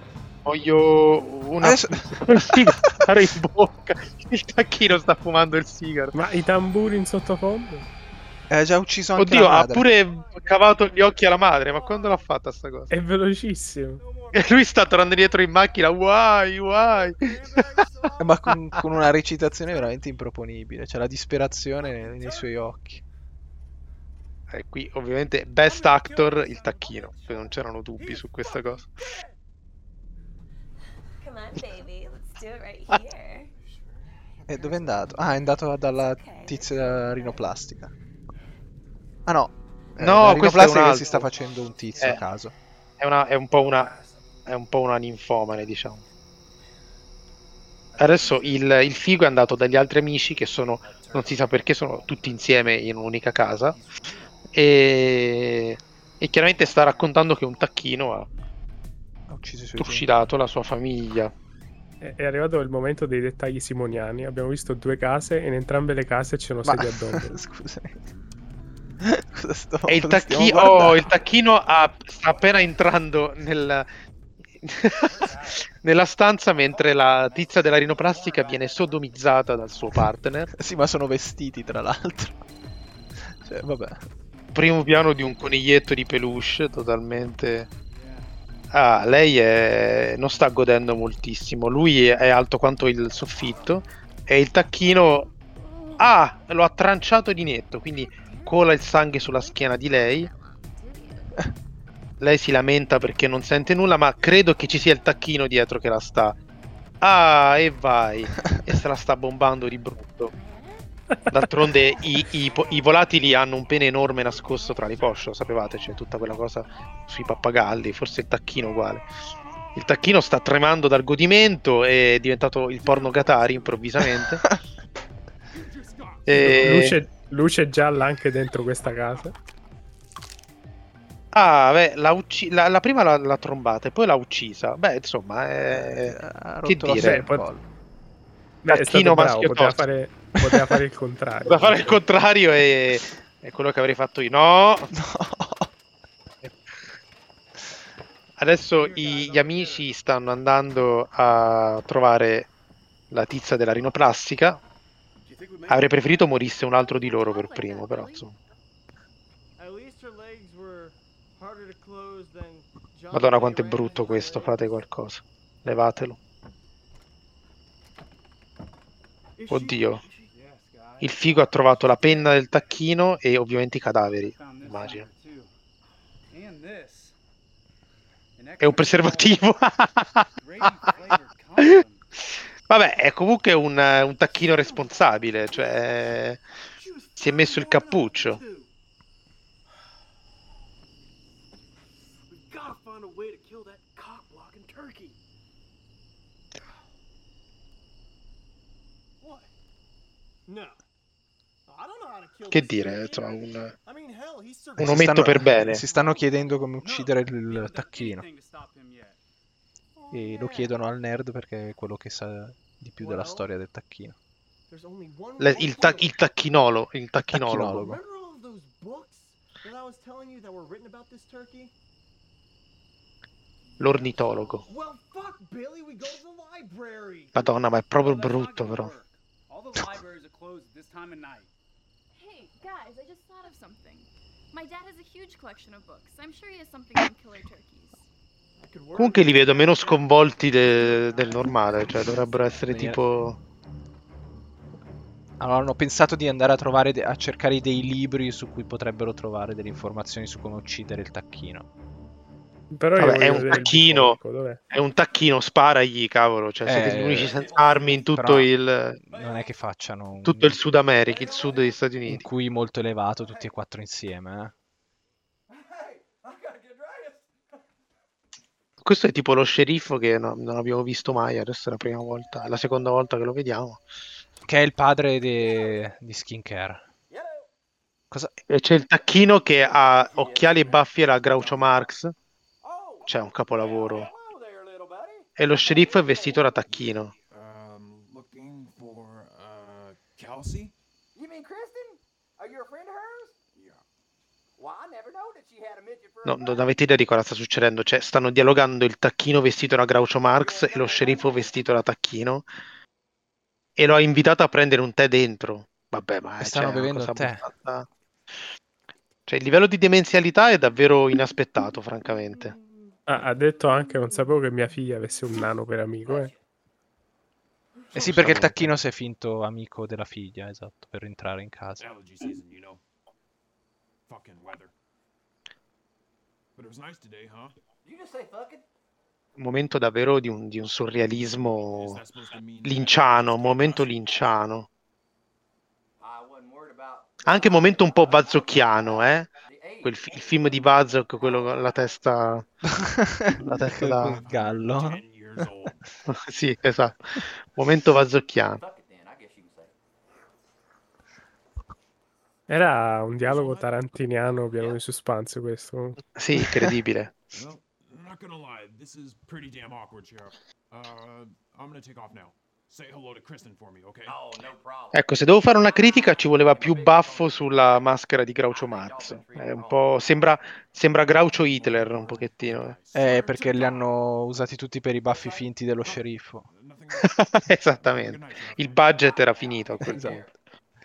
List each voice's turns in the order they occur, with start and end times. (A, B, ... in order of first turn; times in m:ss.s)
0:00.4-0:06.1 A
0:01.6-0:03.2 B
0:06.1-0:07.8 C
0:08.5-0:09.8 B
0:09.2-0:12.9 A
0:09.9-0:12.2 D
0:12.9-0:14.0 C
0:14.0-0:15.4 D
0:14.3-0:17.6 A
0:16.7-0:19.9 D
0:18.2-0:23.0 B
0:21.8-0:22.6 D
0:24.5-0:28.9 A
0:25.6-0:29.3 D
0:26.0-0:26.5 E
0:31.2-0:33.5 F
0:33.6-0:33.9 E
0:34.1-0:35.6 D
0:34.5-0:37.9 B
0:35.9-0:37.4 F
0:39.2-0:42.5 B
0:40.0-0:41.3 A
0:40.4-0:41.9 D
0:41.1-0:42.2 E
0:43.0-0:43.9 A
0:43.6-0:44.4 E
0:44.4-0:46.0 A
0:47.9-0:49.6 E
0:48.0-0:53.8 A
0:50.4-0:52.8 E
0:53.4-0:54.4 E
0:54.5-0:58.3 A
0:59.3-1:00.1 B
0:59.8-1:01.3 A
1:02.0-1:07.3 C
1:06.6-1:08.0 B
1:09.0-1:11.1 B
1:09.9-1:13.9 A
1:14.6-1:20.5 A
1:15.0-1:15.7 E
1:16.6-1:19.1 E
1:20.5-1:22.4 B
1:23.4-1:24.0 B
1:24.5-1:27.7 A
1:27.8-1:28.3 E
1:28.7-1:35.3 A
1:35.6-1:36.1 F
1:36.0-1:40.3 A
1:38.1-1:41.5 F
1:42.2-1:46.4 A
1:47.0-1:50.3 A
1:48.4-1:48.8 B
1:50.3-1:50.9 F
1:51.3-1:59.1 A
1:59.7-2:04.4 A
2:02.8-2:03.7 G
2:04.0-2:04.6 B
2:05.5-2:06.9 G
2:06.3-2:07.0 A
2:06.3-2:09.3 C
2:11.3-2:17.2 A
2:15.7-2:17.6 B
2:17.0-2:17.5 C
2:18.6-2:22.0 C
2:18.7-2:19.8 A
2:20.4-2:20.8 B
2:21.4-2:24.9 A
2:24.9-2:25.7 B
2:28.4-2:32.5 A
2:28.7-2:29.9 E
2:33.1-2:34.6 A
2:35.2-2:36.5 E
2:35.7-2:38.3 A
2:36.7-2:38.3 F
2:39.6-2:44.8 D
2:43.1-2:46.2 A
2:49.4-2:50.3 D
2:49.5-2:50.0 A
2:50.3-2:52.3 E
2:51.0-2:55.1 A
2:54.2-2:55.5 E
2:56.3-2:57.2 E
2:58.4-2:59.5 E
2:58.6-3:00.9 A
3:00.4-3:02.0 E
3:02.7-3:06.4 A
3:04.2-3:06.2 D
3:06.7-3:08.7 D
3:07.2-3:08.4 A
3:12.3-3:15.2 D
3:19.2-3:19.5 D
3:20.5-3:20.8 D
3:21.7-3:26.1 D
3:22.5-3:23.7 A
3:24.8-3:25.8 A
3:24.8-3:28.2 B
3:26.8-3:29.2 E
3:30.1-3:30.8 D
3:30.1-3:34.2 B
3:33.0-3:33.5 D
3:34.7-3:36.2 D
3:35.4-3:37.8 A
3:37.3-3:38.0 B
3:37.7-3:41.7 D
3:43.7-3:44.6 E
3:43.8-3:44.6 A
3:44.6-3:47.5 D
3:47.3-3:48.9 A
3:47.9-3:51.5 E
3:52.1-3:58.0 F
3:58.6-4:02.0 D
3:59.0-4:03.4 A
4:00.8-4:02.6 E
4:02.7-4:03.0 B
4:05.4-4:11.7 B
4:12.7-4:14.6 C
4:13.0-4:14.2 A
4:14.7-4:19.0 A
4:16.6-4:17.4 B
4:16.9-4:18.2 E
4:18.1-4:18.5 B
4:19.0-4:20.6 B
4:19.1-4:19.6 E
4:20.2-4:22.2 A
4:21.0-4:21.8 E
4:22.0-4:24.5 B
4:23.2-4:23.5 E
4:25.5-4:27.6 E
4:28.8-4:33.8 A
4:34.4-4:36.8 B
4:35.4-4:35.8 E
4:37.1-4:37.5 E
4:38.5-4:42.1 A
4:39.4-4:41.8 E
4:42.6-4:47.0 E
4:43.1-4:44.1 A
4:45.4-4:47.1 A
4:47.3-4:50.7 G
4:51.1-4:53.4 E
4:53.5-4:53.8 G
4:54.6-4:56.8 E
4:56.2-5:02.5 A
5:00.4-5:01.8 E
5:03.8-5:07.9 A
5:06.4-5:07.5 B
5:09.3-5:12.6 A
5:13.1-5:16.3 C
5:16.0-5:16.4 E
5:17.8-5:18.2 F
5:17.9-5:21.8 B
5:18.0-5:18.7 A
5:21.8-5:22.8 G
5:24.1-5:24.7 G
5:26.6-5:27.5 G
5:27.8-5:28.6 E
5:29.4-5:32.0 A
5:31.8-5:34.3 G
5:32.6-5:34.7 A
5:36.0-5:41.5 E
5:37.2-5:39.3 A
5:39.8-5:42.5 A
5:42.7-5:45.4 B
5:43.4-5:44.2 A
5:43.8-5:45.9 G
5:46.1-5:48.6 A
5:48.6-5:49.7 E
5:52.5-5:56.0 C
5:53.2-5:54.4 G
5:54.5-5:54.8 E
5:56.2-5:57.2 A
5:56.4-5:56.7 B
5:57.3-6:04.2 G
6:04.0-6:07.9 E
6:04.9-6:12.8 A
6:08.5-6:10.3 E
6:11.5-6:13.9 G
6:12.0-6:13.7 E
6:12.9-6:16.4 B
6:15.1-6:15.5 E
6:15.8-6:19.1 G
6:17.0-6:20.3 A
6:19.0-6:20.3 E
6:19.8-6:20.3 B